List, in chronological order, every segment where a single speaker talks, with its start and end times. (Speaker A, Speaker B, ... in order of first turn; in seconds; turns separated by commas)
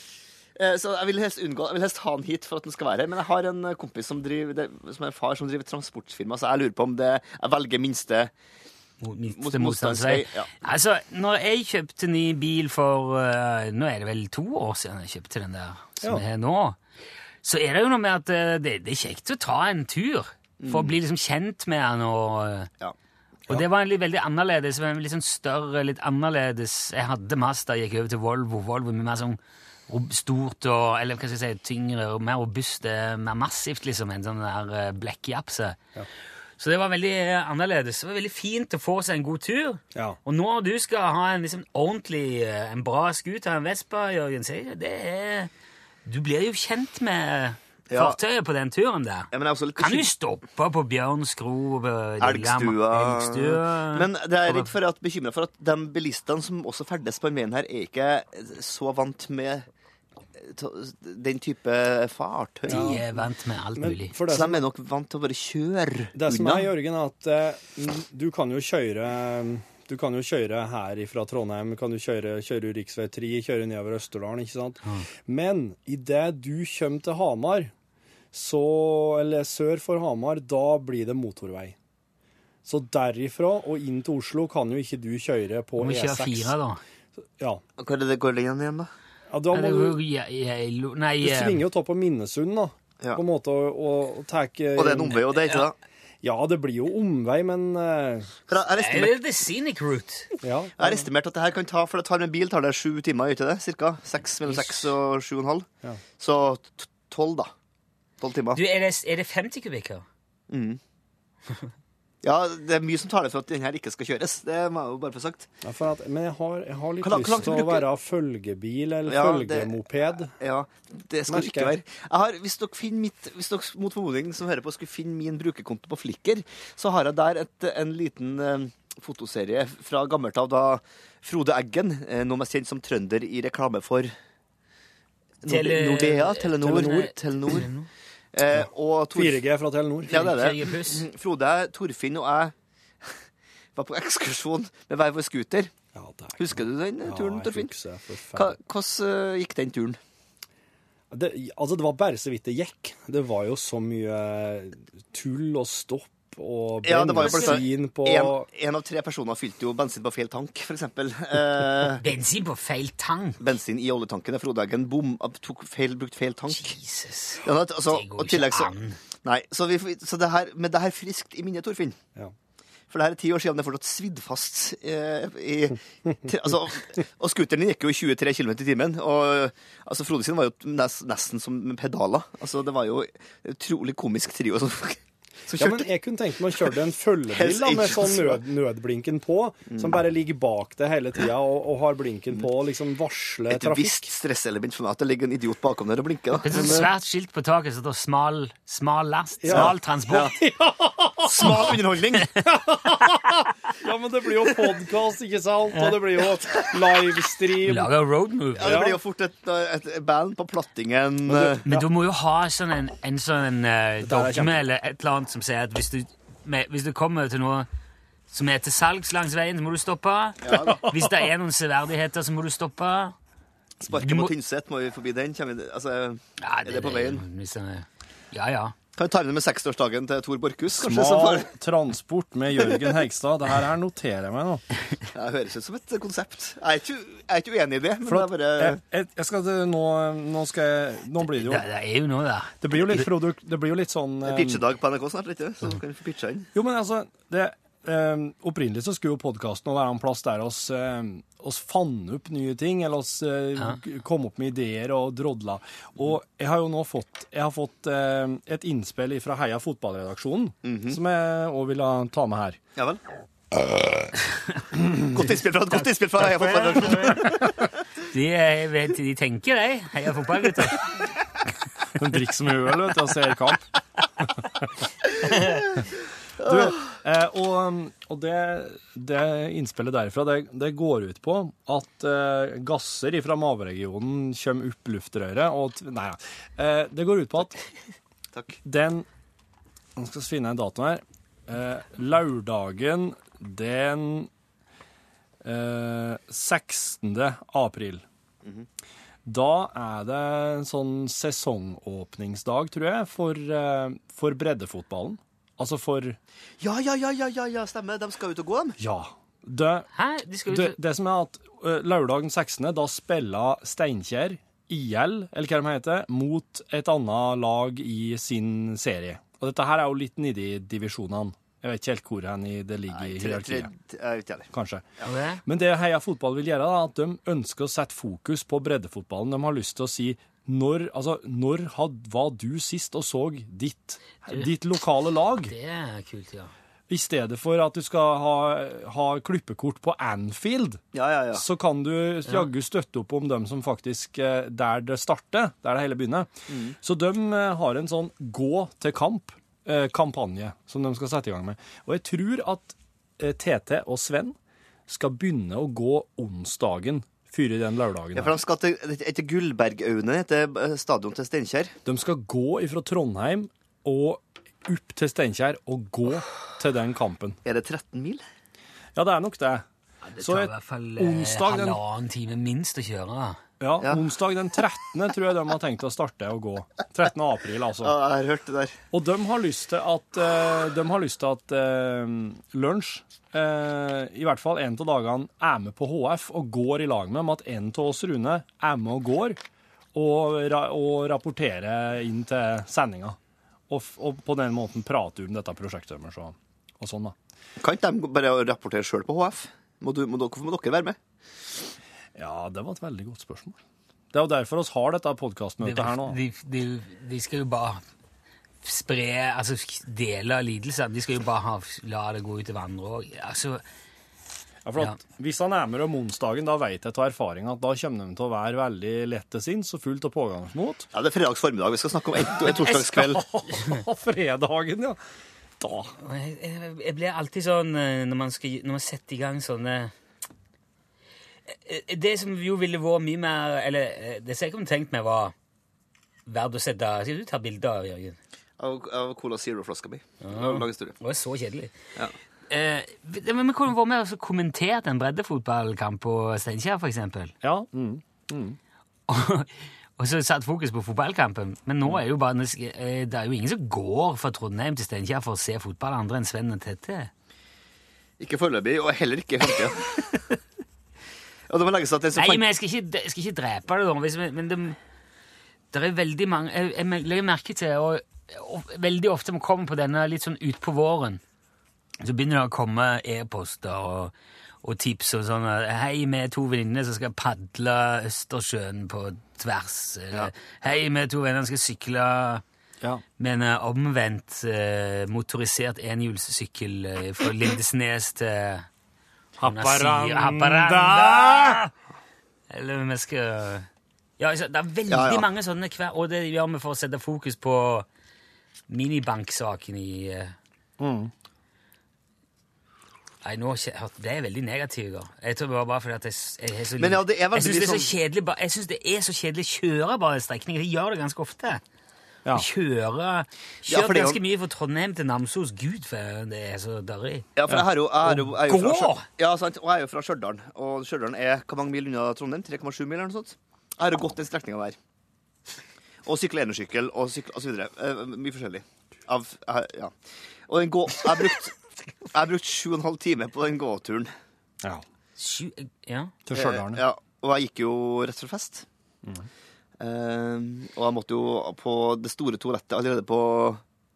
Speaker A: 0.6-8.3, Speaker B: 9.0-16.8, Speaker A: 9.3-10.5, Speaker B: 17.4-22.7, Speaker A: 20.6-21.0, Speaker B: 23.5-35.8, Speaker B: 36.6-45.5, Speaker B: 46.0-54.7, Speaker A: 47.9-48.2, Speaker A: 49.3-50.1, Speaker A: 52.2-59.7, Speaker A: 60.4-63.0, Speaker B: 62.7-64.1, Speaker C: 62.7-63.2, Speaker C: 63.8-64.6, Speaker A: 64.3-66.7, Speaker C: 66.1-77.7, Speaker C: 78.3-81.8, Speaker C: 82.7-86.5, Speaker B: 85.8-86.8, Speaker A: 87.8-88.9, Speaker C: 89.3-90.0, Speaker B: 89.5-91.6, Speaker C: 91.2-95.2, Speaker A: 94.8-95.8, Speaker C: 96.2-98.3, Speaker A: 98.5-99.2, Speaker B: 98.8-100.3, Speaker C: 100.4-101.1, Speaker A: 100.8-105.7, Speaker B: 104.5-104.9, Speaker A: 106.2-107.5, Speaker A: 108.2-108.6, Speaker B: 108.5-110.0, Speaker A: 110.5-110.8, Speaker A: 112.2-115.5, Speaker C: 115.6-120.3, Speaker A: 117.0-117.8, Speaker A: 119.1-119.8, Speaker A: 120.3-134.1, Speaker C: 121.3-121.8, Speaker A: 135.4-137.7, Speaker B: 135.4-137.9, Speaker C: 136.7-136.9, Speaker A: 138.3-139.4, Speaker C: 139.2-140.3, Speaker A: 140.1-143.1, Speaker B: 140.1-141.1, Speaker A: 143.8-145.7, Speaker C: 145.9-148.6, Speaker A: 146.4-147.7, Speaker A: 148.3-150.0, Speaker C: 151.1-158.5, Speaker A: 156.8-162.0, Speaker B: 157.2-157.6, Speaker B: 162.0-163.4, Speaker A: 163.4-166.8, Speaker B: 166.5-169.0, Speaker A: 167.4-168.7, Speaker A: 169.2-172.0, Speaker A: 172.9-185.9, Speaker C: 185.6-194.1, Speaker A: 187.3-188.4, Speaker A: 189.7-190.0, Speaker A: 193.5-196.8, Speaker B: 196.4-200.3, Speaker C: 196.4-196.9, Speaker C: 199.4-201.8, Speaker A: 201.2-202.4, Speaker C: 202.4-207.9, Speaker B: 207.6-208.8, Speaker A: 208.6-211.6, Speaker C: 208.6-209.0, Speaker C: 211.3-211.9, Speaker B: 211.7-217.7, Speaker C: 214.0-214.6, Speaker B: 218.3-223.2, Speaker A: 220.4-220.8, Speaker A: 223.8-227.2, Speaker B: 223.9-224.3, Speaker B: 226.4-228.8, Speaker A: 229.0-231.5, Speaker C: 230.8-234.6, Speaker A: 235.1-238.8, Speaker C: 238.1-241.6, Speaker B: 241.3-243.1, Speaker C: 242.6-244.6, Speaker A: 244.2-246.5, Speaker C: 246.5-262.6, Speaker A: 260.6-261.0, Speaker A: 265.0-267.7, Speaker B: 265.7-267.4, Speaker B: 268.1-270.9, Speaker C: 272.0-273.7, Speaker A: 276.4-276.8, Speaker C: 276.4-287.6, Speaker C: 288.6-289.1, Speaker C: 290.0-294.3, Speaker C: 295.4-298.0, Speaker C: 299.2-306.2, Speaker A: 306.6-308.8, Speaker C: 308.8-309.9, Speaker B: 309.9-310.8, Speaker C: 310.5-323.7, Speaker A: 322.9-324.5, Speaker C: 324.5-324.9, Speaker B: 325.0-325.4, Speaker C: 325.4-335.5, Speaker B: 335.4-336.5, Speaker C: 336.9-340.8, Speaker A: 340.9-341.4, Speaker C: 341.3-354.4, Speaker A: 346.5-346.8, Speaker C: 354.9-358.4, Speaker A: 358.1-361.7, Speaker C: 361.9-367.4, Speaker A: 367.4-368.2, Speaker C: 368.9-369.7, Speaker B: 370.1-373.4, Speaker C: 370.2-371.8, Speaker C: 373.6-378.0, Speaker A: 377.8-378.8, Speaker C: 378.9-389.4, Speaker C: 389.9-393.2, Speaker C: 393.7-397.2, Speaker A: 397.6-401.0, Speaker C: 402.1-403.6, Speaker C: 404.1-406.2, Speaker B: 405.6-407.8, Speaker B: 408.6-413.6, Speaker C: 414.6-420.9, Speaker A: 420.9-423.2, Speaker C: 422.4-425.0, Speaker C: 425.6-425.9, Speaker B: 426.0-429.9, Speaker B: 431.5-435.3, Speaker B: 436.3-438.2, Speaker A: 438.6-441.0, Speaker B: 440.2-441.8, Speaker B: 442.5-447.3, Speaker C: 447.4-448.6, Speaker B: 449.1-457.1, Speaker A: 458.2-460.4, Speaker A: 461.5-462.5, Speaker B: 462.2-464.8, Speaker B: 465.7-471.2, Speaker B: 472.0-482.4, Speaker B: 483.2-488.7, Speaker C: 489.4-491.6, Speaker B: 489.4-491.7, Speaker B: 492.5-493.7, Speaker B: 494.2-497.9, Speaker A: 494.9-495.2, Speaker B: 498.7-500.4, Speaker C: 500.8-501.1, Speaker B: 503.2-511.6, Speaker A: 506.8-507.9, Speaker B: 512.3-517.3, Speaker A: 513.7-514.2, Speaker A: 517.4-524.8, Speaker B: 518.1-519.1, Speaker A: 526.0-530.0, Speaker A: 530.5-534.1, Speaker B: 535.2-536.1, Speaker C: 536.3-536.8, Speaker A: 536.3-538.7, Speaker A: 539.8-543.6